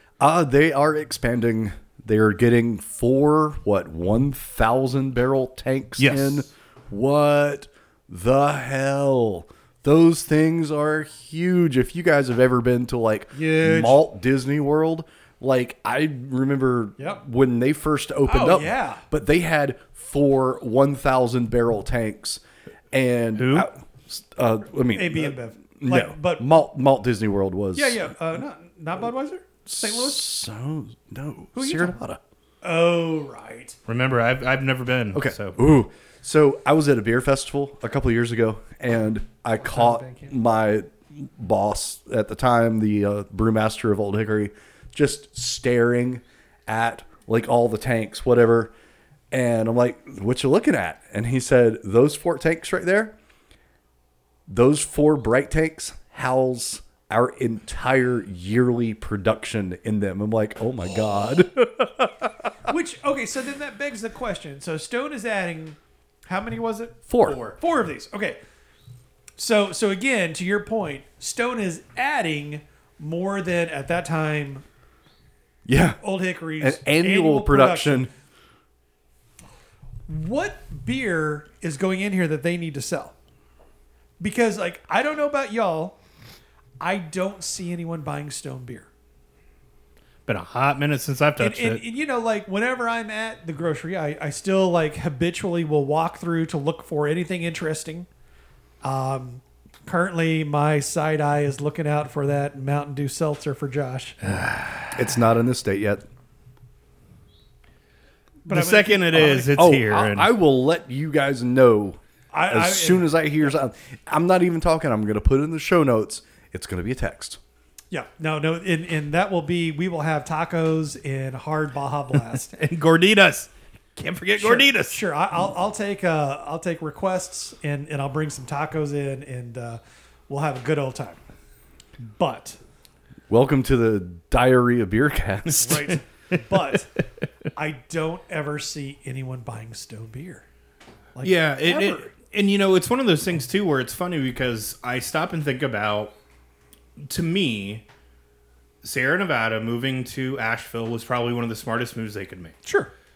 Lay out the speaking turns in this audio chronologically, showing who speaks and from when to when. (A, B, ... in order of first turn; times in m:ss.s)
0:00.2-0:28.1 A
0:06.0-0:06.4 B
0:13.3-0:14.0 C
0:18.2-0:19.0 C
0:23.4-0:23.7 B
0:24.9-0:26.5 C
0:27.7-0:30.3 C
0:29.6-0:32.2 A
0:31.5-0:31.9 C
0:32.6-0:33.8 C
0:33.9-0:35.6 B
0:35.1-0:48.7 A
0:39.6-0:40.3 C
0:49.3-0:53.1 A
0:54.5-1:02.2 A
1:02.6-1:07.0 C
1:07.1-1:07.4 A
1:07.2-1:07.6 B
1:07.6-1:08.4 C
1:09.4-1:14.6 C
1:15.6-1:16.0 A
1:16.0-1:18.1 C
1:16.6-1:18.1 A
1:20.1-1:23.1 C
1:24.2-1:26.0 C
1:26.8-1:28.9 C
1:30.3-1:31.8 B
1:31.4-1:38.1 C
1:38.8-1:44.2 C
1:44.2-1:45.0 B
1:44.9-1:46.0 A
1:48.4-1:49.6 C
1:48.5-1:50.3 B
1:49.6-1:57.4 A
1:52.3-1:53.1 C
1:57.9-2:02.5 C
2:02.5-2:05.0 B
2:04.4-2:11.2 C
2:12.0-2:12.6 C
2:13.3-2:15.8 A
2:15.6-2:16.4 B
2:15.6-2:16.9 C
2:17.6-2:20.4 C
2:21.1-2:22.1 C
2:21.2-2:26.1 B
2:27.0-2:27.8 B
2:28.8-2:32.6 B